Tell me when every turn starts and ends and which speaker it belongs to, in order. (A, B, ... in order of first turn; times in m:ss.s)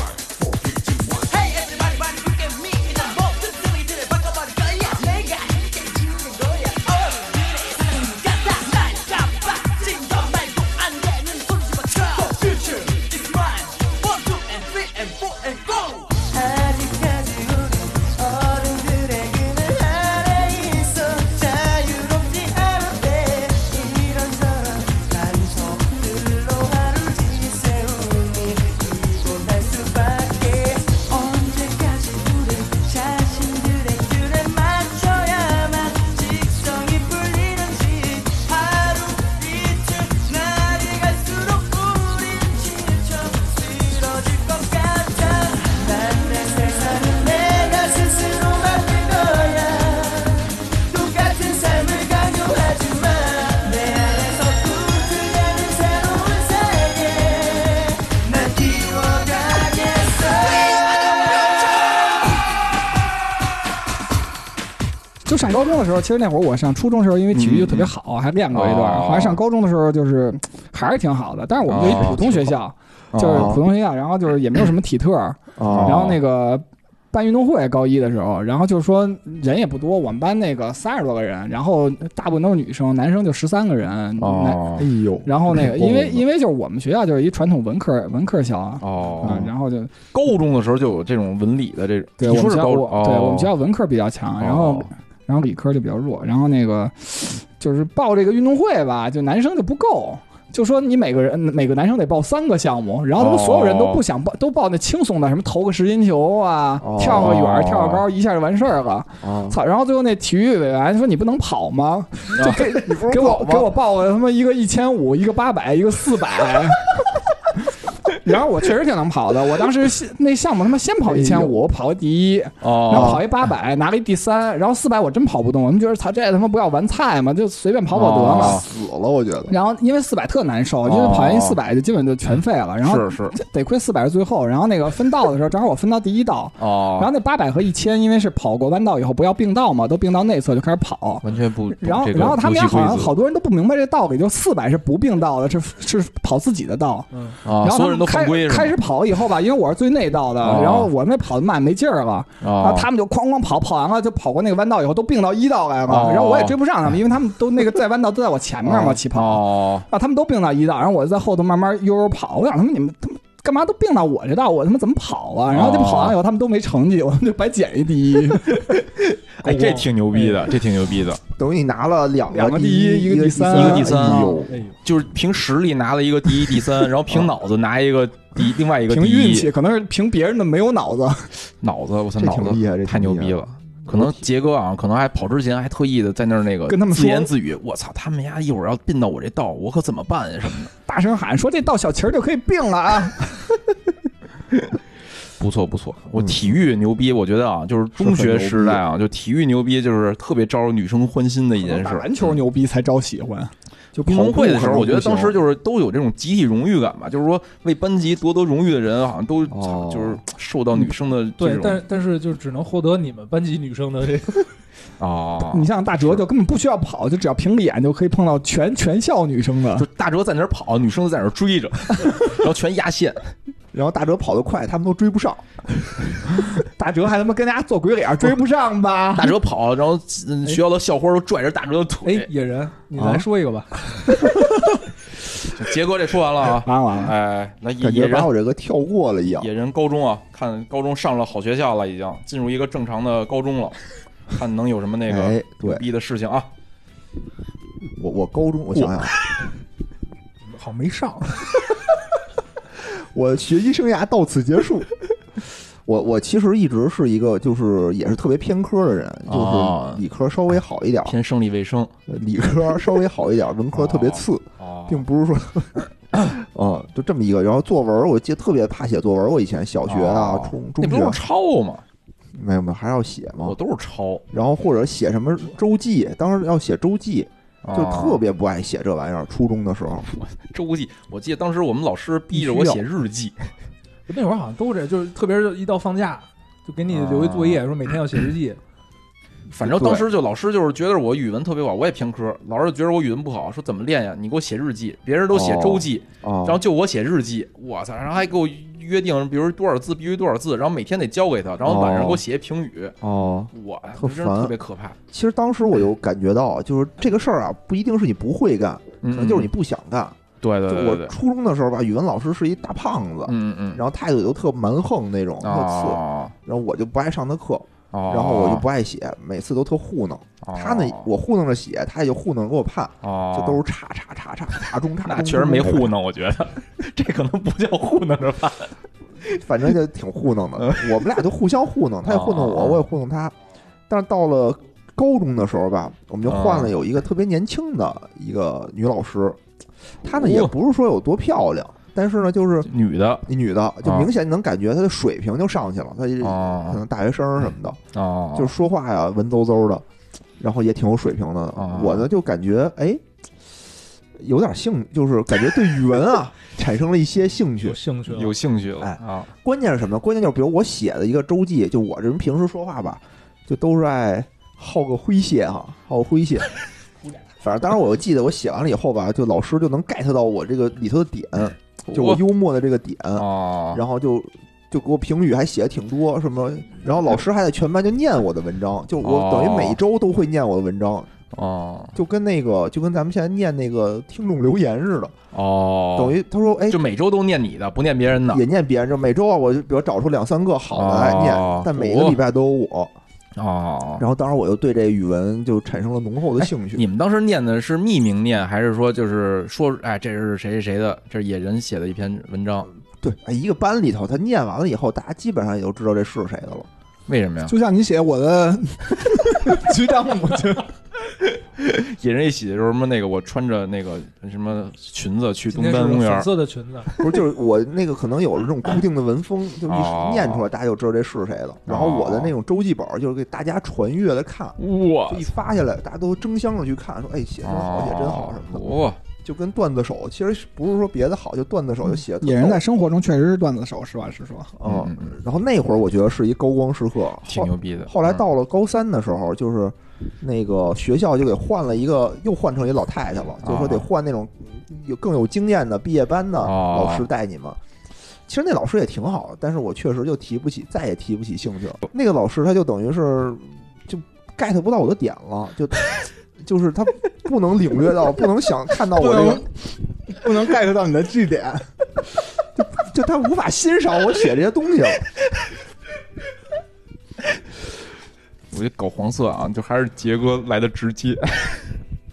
0:00.8-1:02.3 A
1:05.2-1:24.7 B
1:07.3-1:07.9 C
1:08.5-1:09.4 C
1:11.7-1:12.5 C
1:11.7-1:12.6 D
1:13.1-1:13.6 C
1:13.3-1:13.6 D
1:15.6-1:16.2 D
1:15.7-1:16.2 C
1:24.2-1:24.9 C
1:24.8-1:26.2 D
1:25.2-1:29.9 B
1:28.8-1:29.5 C
1:29.2-1:29.5 D
1:30.1-1:33.5 C
1:32.2-1:57.0 B
1:34.4-1:34.9 C
1:43.2-1:44.0 C
1:46.8-1:47.4 D
1:47.0-1:48.1 C
1:49.2-1:49.6 D
1:52.4-1:53.8 D
1:58.0-2:08.6 B
2:01.0-2:01.7 D
2:02.6-2:03.2 C
2:02.9-2:03.2 D
2:07.9-2:08.6 C
2:08.3-2:09.5 D
2:09.5-2:48.7 B
2:10.8-2:11.6 C
2:12.8-2:13.4 C
2:16.6-2:17.1 C
2:21.2-2:23.1 C
2:27.1-2:27.4 E
2:27.4-2:28.8 C
2:30.4-2:30.9 C
2:32.4-2:32.9 C
2:35.9-2:36.6 C
2:38.6-2:39.9 C
2:45.5-2:46.2 C
2:48.4-2:51.2 C
2:49.4-2:50.4 E
2:51.3-2:54.6 D
2:52.3-2:54.4 B
2:53.5-2:59.5 C
2:54.5-2:54.8 E
2:58.9-3:01.3 B
3:01.6-3:10.7 C
3:02.2-3:04.2 D
3:06.7-3:07.3 B
3:10.8-3:13.4 B
3:15.4-3:22.4 C
3:16.2-3:16.6 D
3:18.0-3:18.8 D
3:21.6-3:23.5 B
3:24.0-3:25.4 D
3:24.0-3:31.8 C
3:29.5-3:30.2 D
3:31.4-3:34.5 E
3:35.0-3:36.2 C
3:35.4-3:39.9 B
3:39.8-3:43.3 C
3:43.7-3:45.4 D
3:46.8-3:49.4 B
3:49.2-3:52.3 C
3:52.0-3:54.1 E
3:53.0-3:53.2 D
3:55.4-3:58.3 C
3:56.6-3:57.1 B
3:57.8-3:59.5 D
3:59.4-4:06.5 C
4:05.1-4:05.8 D
4:07.9-4:09.1 D
4:08.8-4:09.1 C
4:10.5-4:11.4 E
4:12.8-4:14.9 D
4:15.8-4:21.2 D
4:19.3-4:20.0 C
4:21.0-4:21.9 C
4:22.1-4:31.2 D
4:23.8-4:25.0 C
4:29.9-4:31.8 C
4:32.3-4:33.6 D
4:33.4-4:34.2 C
4:34.3-4:40.1 D
4:37.6-4:38.2 C
4:40.1-4:43.5 C
4:42.3-4:42.8 D
4:44.1-4:48.6 E
4:46.9-4:47.6 C
4:49.5-5:03.0 C
4:49.5-4:50.1 D
4:55.3-4:56.6 D
5:01.6-5:02.2 D
5:03.0-5:04.5 D
5:03.5-5:05.0 C
5:05.1-5:26.0 D
5:09.0-5:09.5 C
5:10.4-5:11.1 C
5:13.3-5:13.8 C
5:15.4-5:16.3 C
5:17.9-5:18.6 C
5:20.4-5:21.1 C
5:23.0-5:23.6 C
5:25.0-5:28.7 C
5:29.2-5:33.3 D
5:30.6-5:31.0 C
5:32.0-5:32.9 C
5:33.9-5:39.4 D
5:36.2-5:36.7 C
5:40.0-5:42.7 D
5:40.2-5:40.5 C
5:42.6-5:43.3 C
5:43.2-5:47.8 D
5:43.8-5:44.1 C
5:46.2-5:46.8 C
5:47.9-5:48.5 C
5:48.3-5:49.8 D
5:50.4-5:53.0 D
5:51.6-5:52.0 C
5:54.1-5:57.8 D
5:57.6-5:58.4 E
5:58.1-5:59.3 C
5:58.8-6:06.5 D
6:07.4-6:21.1 D
6:11.9-6:12.2 C
6:13.2-6:13.8 C
6:19.0-6:19.8 C
6:21.3-6:22.0 C
6:21.9-6:25.2 D
6:25.3-6:28.4 C
6:26.0-6:26.8 D
6:28.3-6:32.9 D
6:30.7-6:32.2 C
6:33.4-6:34.0 C
6:34.0-6:36.8 D
6:36.4-6:42.7 C
6:43.0-6:46.7 D
6:47.1-6:47.5 C
6:47.4-6:50.7 B
6:51.1-6:56.3 C
6:55.5-6:56.9 E
6:57.0-7:12.6 D
6:59.7-7:00.4 C
7:01.7-7:02.3 C
7:04.6-7:05.3 C
7:07.4-7:09.0 C
7:12.2-7:14.5 B
7:14.6-7:27.6 D
7:14.6-7:15.1 C
7:17.2-7:18.2 C
7:23.4-7:23.9 C
7:26.4-7:27.1 C
7:28.3-7:39.5 D
7:39.0-7:39.5 B
7:40.0-7:41.7 B
7:42.6-7:45.1 D
7:48.5-7:51.8 C